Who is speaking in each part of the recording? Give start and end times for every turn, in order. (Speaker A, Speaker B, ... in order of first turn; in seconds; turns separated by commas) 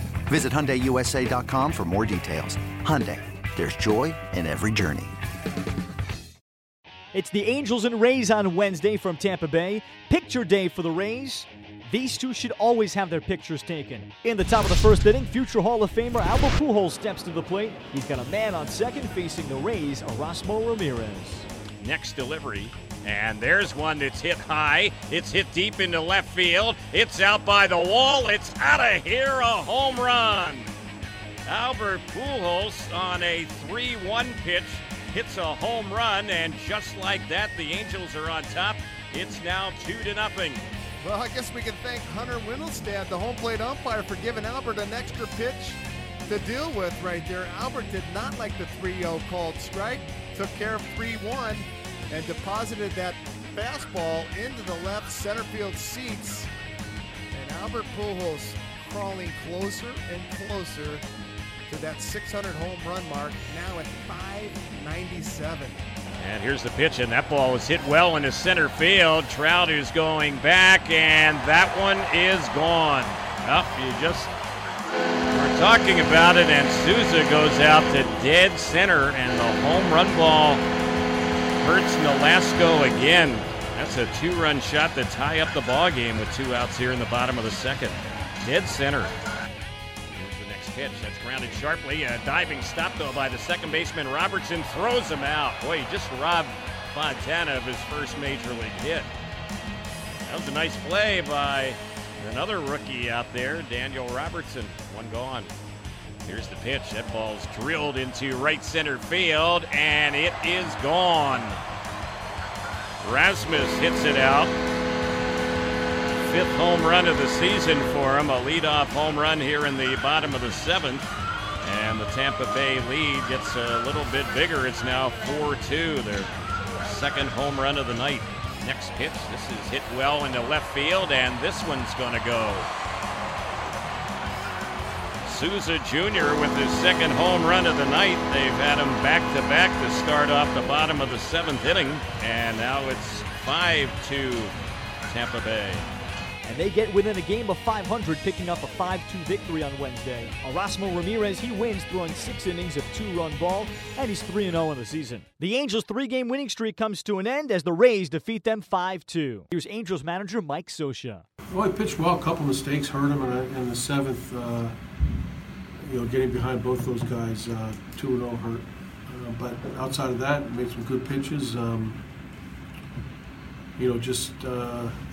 Speaker A: 0.3-5.2, Speaker B: 7.1-21.5, Speaker C: 21.8-30.7, Speaker C: 31.4-40.6, Speaker D: 41.0-56.5, Speaker D: 57.3-61.0, Speaker D: 61.7-65.8, Speaker C: 66.2-74.3, Speaker C: 75.3-80.6, Speaker C: 81.6-89.1, Speaker C: 90.1-99.1, Speaker C: 100.2-105.5, Speaker C: 106.2-111.6, Speaker C: 113.0-114.5, Speaker C: 116.2-121.1, Speaker C: 121.6-132.7, Speaker C: 135.2-144.5, Speaker C: 145.1-145.8, Speaker B: 146.4-161.2, Speaker E: 161.5-164.7, Speaker E: 165.8-172.0, Speaker E: 173.8-175.0